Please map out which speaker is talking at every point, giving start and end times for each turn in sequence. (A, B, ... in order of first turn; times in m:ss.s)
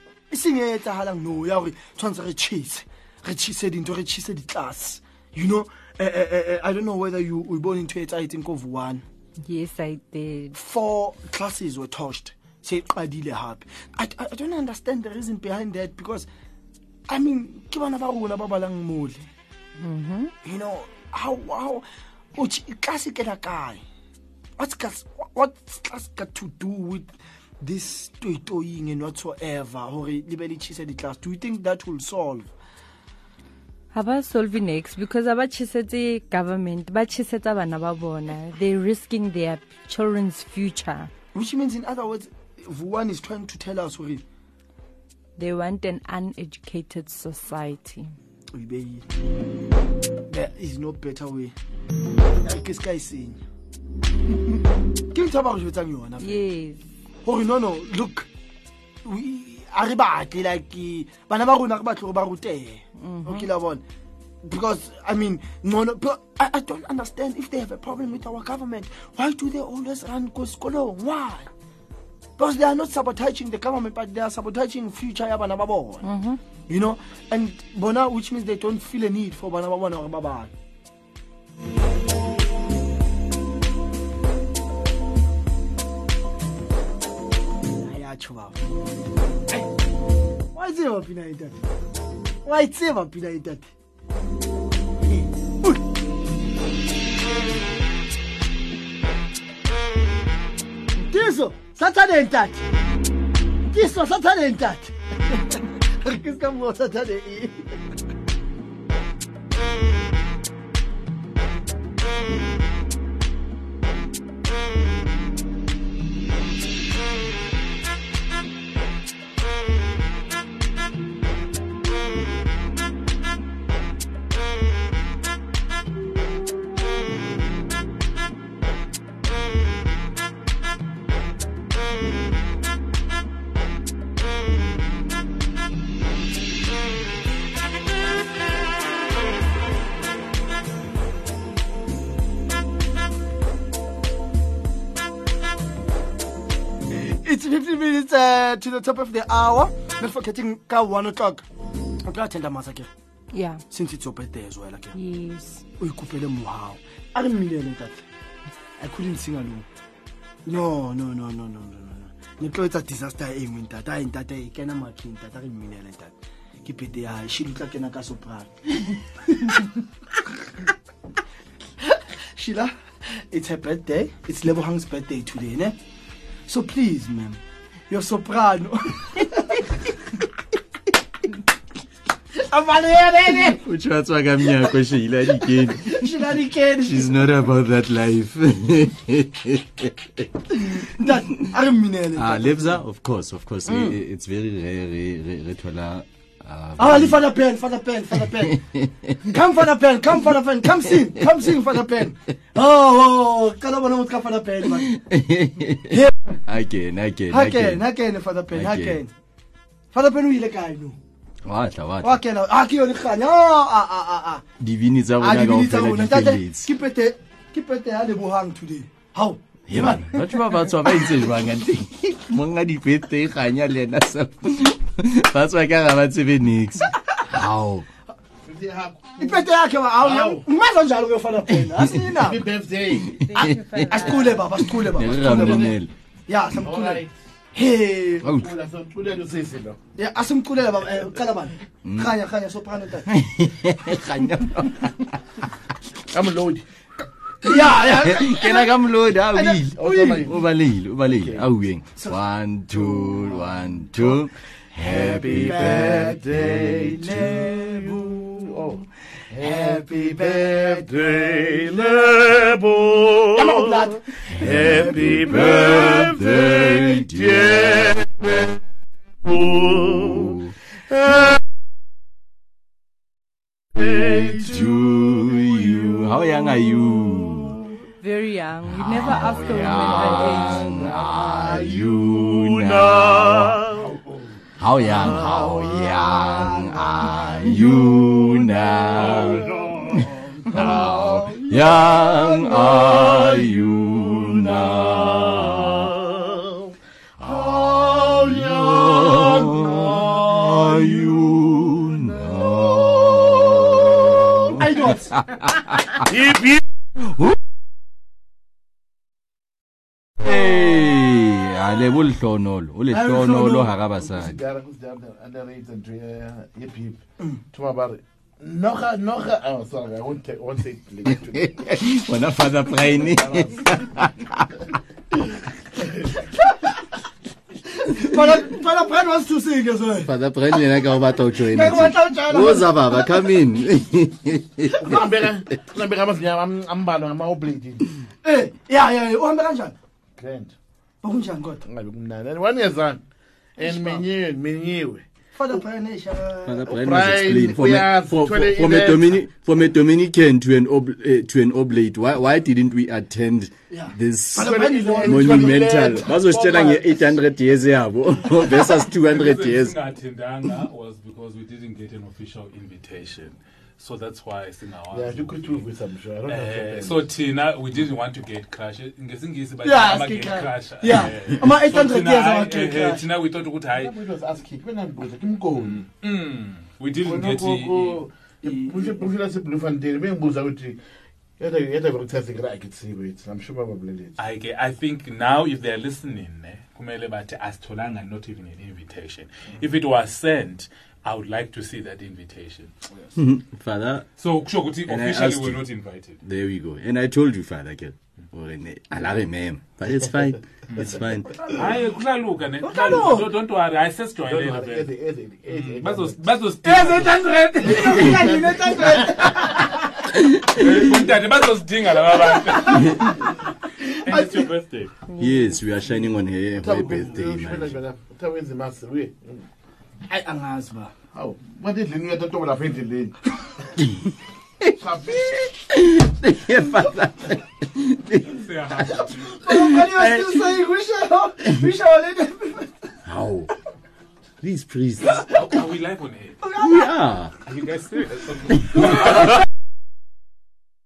0:00.3-0:09.0 A
0:09.4-0:10.6 B
0:10.5-0:16.3 A
0:17.1-0:19.3 A
0:19.8-0:20.3 B
0:20.4-0:23.8 A
0:24.6-0:32.5 A
0:33.9-0:41.1 B
0:41.3-0:44.2 A
0:45.4-0:48.1 B
0:48.5-0:49.0 A
0:50.3-0:51.5 A
0:52.4-0:53.4 A
0:55.1-0:56.4 A
0:56.2-0:56.9 B
0:57.2-0:58.3 A
0:59.0-1:03.8 A
1:03.0-1:03.5 B
1:04.4-1:11.5 A
1:12.4-1:16.1 A
1:16.0-1:16.4 B
1:16.7-1:20.5 A
1:27.7-1:28.6 A
1:30.5-1:31.6 A
1:32.4-1:33.7 A
1:35.0-1:35.8 A
1:41.0-1:42.6 A
1:43.7-1:47.7 A
2:26.9-2:31.4 A
2:32.0-2:32.9 A
2:33.3-2:33.6 B
2:33.7-2:35.0 A
2:34.9-2:35.6 B
2:35.8-2:38.1 A
2:38.8-2:39.7 A
2:40.4-2:49.7 A
2:51.8-2:55.8 A
2:56.5-3:00.3 A
3:02.3-3:03.6 A
3:03.5-3:06.1 C
3:05.4-3:07.2 A
3:06.8-3:10.2 C
3:10.6-3:12.8 A
3:12.2-3:17.3 C
3:13.6-3:14.0 A
3:16.8-3:18.6 A
3:18.3-3:19.2 C
3:19.2-3:24.9 A
3:20.9-3:21.4 C
3:24.6-3:27.8 C
3:25.9-3:26.4 A
3:27.3-3:29.1 A
3:28.5-3:29.0 C
3:29.9-3:31.0 A
3:31.4-3:32.2 C
3:32.0-3:34.4 A
3:34.6-3:36.7 C
3:35.2-3:40.4 A
3:39.7-3:47.8 C
3:48.4-3:49.0 D
3:49.2-3:52.4 A
3:50.0-3:50.4 D
3:52.1-3:53.2 D
3:53.1-3:55.9 C
3:53.3-3:54.4 B
3:53.4-3:55.7 A
3:55.4-3:55.7 D
3:56.3-3:58.5 A
3:56.6-3:57.0 D
3:58.2-3:58.5 C
3:58.4-3:59.8 D
4:00.0-4:03.1 A
4:01.8-4:02.1 C
4:03.1-4:05.1 C
4:06.1-4:06.6 D
4:07.4-4:08.8 A
4:07.8-4:16.2 C
4:09.3-4:10.2 A
4:09.8-4:10.3 D
4:12.7-4:13.4 A
4:14.9-4:18.4 A
4:15.1-4:17.2 D
4:19.4-4:22.3 A
4:19.4-4:23.5 D
4:23.3-4:25.6 A
4:24.4-4:28.1 C
4:24.6-4:26.3 D
4:29.7-4:30.5 C
4:33.8-4:37.6 C
4:33.9-4:34.3 D
4:38.0-4:40.8 B
4:38.7-4:43.7 C
4:40.0-4:41.8 D
4:43.6-4:44.0 D
4:44.6-4:56.0 C
4:45.1-4:46.1 D
4:49.3-4:50.0 D
4:50.5-4:52.1 D
4:57.2-5:06.0 C
4:57.3-5:00.7 D
5:04.6-5:05.0 A
5:06.1-5:06.6 D
5:07.0-5:07.4 C
5:10.2-5:14.4 C
5:12.9-5:13.7 A
5:14.0-5:17.0 D
5:17.5-5:21.6 D
5:21.1-5:24.4 C
5:23.1-5:23.5 D
5:27.7-5:30.1 A
5:30.0-5:35.0 C
5:31.3-5:33.3 A
5:34.8-5:37.8 D
5:38.2-5:39.7 A
5:40.2-5:40.5 D
5:41.0-5:41.6 A
5:41.6-5:43.0 D
5:43.6-5:44.0 A
5:43.6-5:45.0 D
5:45.4-5:46.8 A
5:46.4-5:59.7 C
5:46.7-5:49.2 D
5:53.7-5:55.6 A
5:54.4-5:57.0 D
5:59.0-6:05.7 E
6:04.9-6:07.1 D
6:06.2-6:13.9 E
6:09.6-6:13.0 A
6:13.7-6:15.8 D
6:15.5-6:18.0 E
6:17.0-6:20.8 D
6:18.4-6:19.1 A
6:21.4-6:24.2 D
6:24.2-6:32.7 E
6:33.2-6:34.1 C
6:34.2-6:36.2 E
6:34.8-6:35.6 C
6:36.2-6:41.4 C
6:40.7-6:44.9 E
6:42.6-6:43.3 A
6:44.2-6:46.4 D
6:45.5-6:47.4 E
6:46.6-6:49.8 A
6:47.6-6:49.6 D
6:50.5-6:54.9 E
6:52.5-6:52.8 A
6:54.0-6:54.4 A
6:55.1-6:55.5 B
6:55.2-6:57.8 C
6:56.6-6:59.4 D
7:00.1-7:00.9 A
7:01.1-7:03.1 D
7:04.8-7:05.5 D
7:05.7-7:08.9 C
7:08.3-7:09.4 E
7:09.0-7:12.9 A
7:09.5-7:10.6 C
7:13.0-7:13.5 C
7:14.4-7:15.3 C
7:15.1-7:16.4 E
7:16.4-7:16.9 A
7:16.6-7:17.3 C
7:17.4-7:19.4 E